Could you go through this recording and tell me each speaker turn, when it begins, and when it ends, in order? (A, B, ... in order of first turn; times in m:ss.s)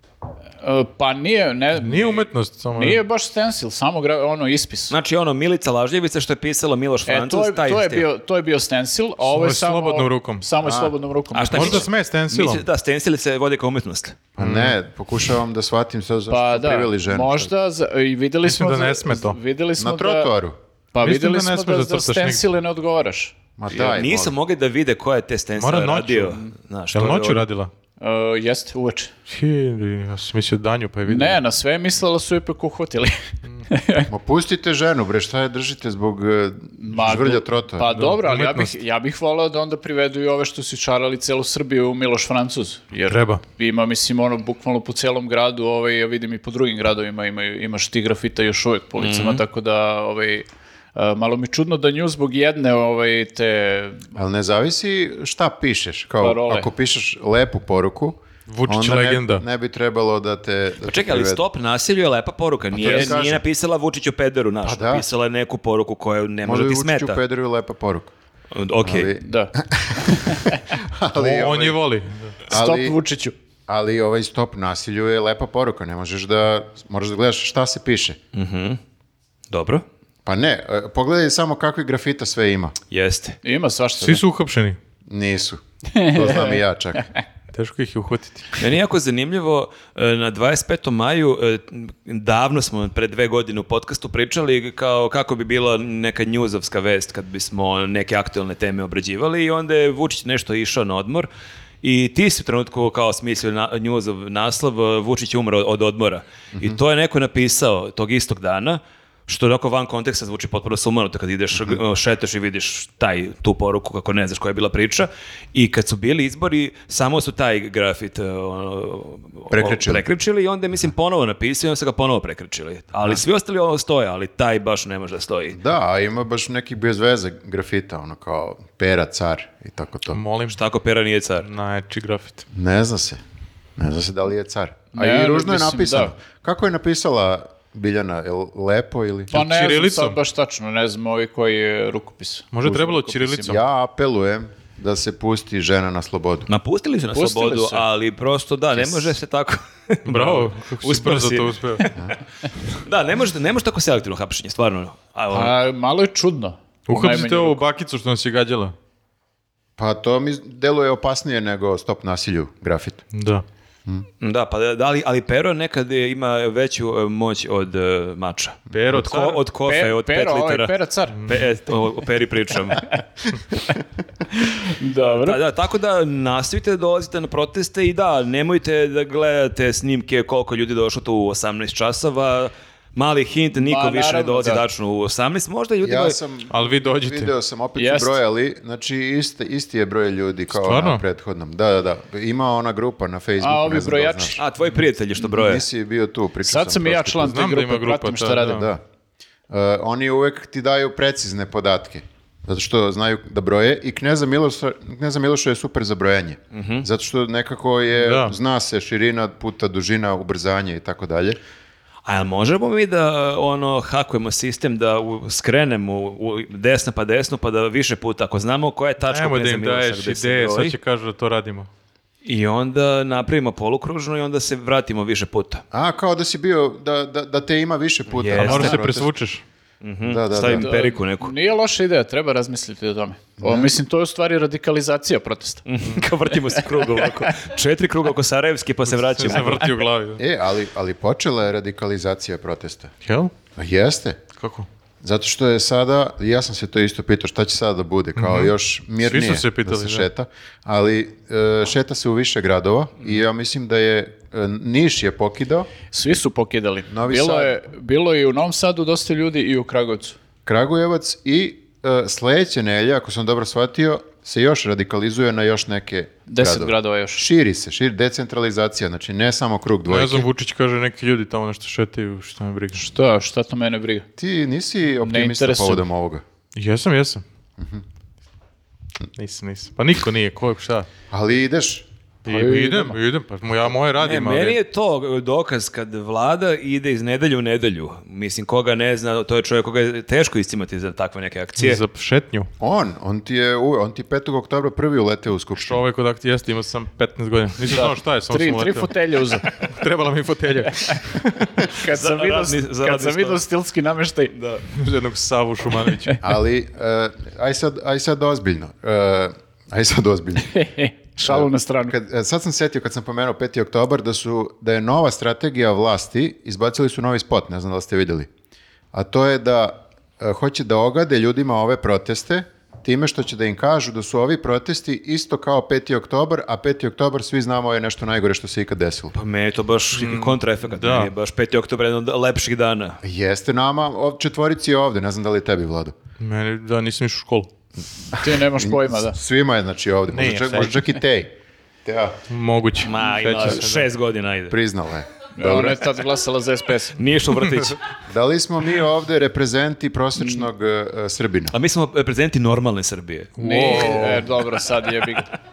0:00.6-0:04.9 A
0:01.8-0:03.0 B
0:04.9-0:08.0 C
0:07.1-0:11.9 A
0:09.2-0:10.4 B
0:10.6-0:10.9 D
0:11.3-0:14.2 C
0:11.5-0:12.6 B
0:14.4-0:17.5 D
0:14.4-0:14.8 B
0:16.3-0:20.3 A
0:18.4-0:19.4 B
0:19.8-0:20.6 D
0:20.9-0:23.3 A
0:21.0-0:22.4 B
0:23.6-0:24.3 D
0:23.7-0:27.4 C
0:25.6-0:26.4 B
0:26.9-0:27.7 B
0:28.0-0:29.1 A
0:29.3-0:31.4 B
0:31.1-0:34.1 A
0:34.1-0:37.9 D
0:36.8-0:54.0 A
0:37.9-0:38.7 B
0:43.1-0:43.4 B
0:49.0-0:49.4 C
0:54.1-1:01.4 D
0:56.2-0:56.7 A
0:58.5-0:59.4 B
1:00.8-1:07.2 C
1:02.7-1:03.4 D
1:02.8-1:03.2 A
1:04.6-1:05.0 D
1:06.4-1:08.1 D
1:08.5-1:09.1 C
1:08.8-1:11.8 D
1:09.2-1:10.6 A
1:11.1-1:12.4 B
1:12.5-1:13.0 D
1:12.5-1:13.3 A
1:13.7-1:18.2 D
1:18.3-1:18.8 C
1:19.5-1:19.8 C
1:20.2-1:22.7 D
1:22.9-1:23.4 C
1:23.4-1:24.2 A
1:24.0-1:24.8 B
1:25.1-1:27.1 D
1:25.9-1:27.2 A
1:27.5-1:28.6 B
1:28.6-1:41.3 C
1:41.8-2:05.6 C
1:59.5-2:00.0 D
2:05.5-2:10.2 D
2:10.1-2:10.6 B
2:10.5-2:11.5 C
2:11.4-2:12.4 B
2:12.5-2:13.2 D
2:13.8-2:19.3 D
2:14.9-2:16.1 A
2:19.3-2:20.2 B
2:19.3-2:23.6 A
2:22.5-2:23.6 B
2:23.4-2:26.5 D
2:26.5-2:31.8 C
2:27.1-2:27.8 A
2:28.8-2:29.1 D
2:30.0-2:31.9 B
2:32.7-2:35.5 C
2:35.3-2:37.6 A
2:36.9-2:38.7 B
2:39.8-2:43.0 D
2:43.1-2:43.4 B
2:44.2-2:52.9 C
2:48.7-2:49.4 B
2:49.6-2:51.3 A
2:54.4-2:55.4 A
2:55.0-3:06.2 C
3:03.6-3:04.6 A
3:05.8-3:14.4 D
3:06.5-3:07.3 B
3:07.8-3:08.2 A
3:10.5-3:11.0 B
3:13.4-3:14.4 A
3:14.4-3:15.6 C
3:15.2-3:17.3 D
3:16.4-3:18.6 A
3:17.2-3:18.7 B
3:18.4-3:18.8 D
3:19.5-3:31.4 D
3:26.5-3:26.8 C
3:28.0-3:28.3 B
3:32.0-3:40.8 C
3:39.1-3:41.7 B
3:42.2-3:45.6 C
3:45.7-3:49.1 D
3:48.1-3:48.8 C
3:48.4-3:49.4 B
3:49.8-3:51.3 C
3:50.0-3:50.8 D
3:50.5-3:55.6 A
3:53.4-3:53.7 D
3:55.7-3:59.8 C
3:56.3-3:57.4 A
3:58.9-4:00.2 B
4:00.2-4:02.9 D
4:03.0-4:03.3 B
4:03.6-4:04.2 D
4:04.4-4:04.7 B
4:05.0-4:15.7 D
4:08.2-4:10.1 B
4:15.9-4:20.2 A
4:16.9-4:17.5 D
4:20.4-4:30.3 D
4:26.3-4:27.2 A
4:29.9-4:32.9 B
4:32.7-4:34.0 A
4:34.2-4:36.2 D
4:35.0-4:35.8 A
4:36.5-4:37.2 B
4:37.6-4:37.8 D
4:39.2-4:40.9 B
4:41.1-4:41.8 D
4:42.2-4:44.6 B
4:42.2-4:43.0 A
4:44.0-4:51.8 C
4:51.6-4:52.5 B
4:52.6-4:55.8 D
4:55.6-4:58.9 B
4:57.7-4:59.5 A
4:59.5-5:01.6 B
5:01.6-5:04.3 A
5:01.8-5:03.4 C
5:04.3-5:04.6 C
5:04.7-5:06.3 B
5:06.2-5:10.6 D
5:10.5-5:11.9 A
5:11.2-5:18.3 D
5:18.9-5:29.1 D
5:29.1-5:33.0 C
5:29.9-5:31.1 B
5:33.0-5:36.0 D
5:36.2-5:37.5 B
5:38.1-5:39.2 A
5:38.3-5:41.3 D
5:40.1-5:40.9 B
5:41.8-5:42.2 D
5:42.3-5:43.9 B
5:42.8-5:44.6 C
5:44.5-5:45.8 D
5:45.4-5:47.0 A
5:47.0-5:47.9 C
5:48.1-5:51.5 D
5:50.2-5:50.4 A
5:51.5-5:53.8 C
5:53.4-5:54.3 B
5:53.4-5:55.3 A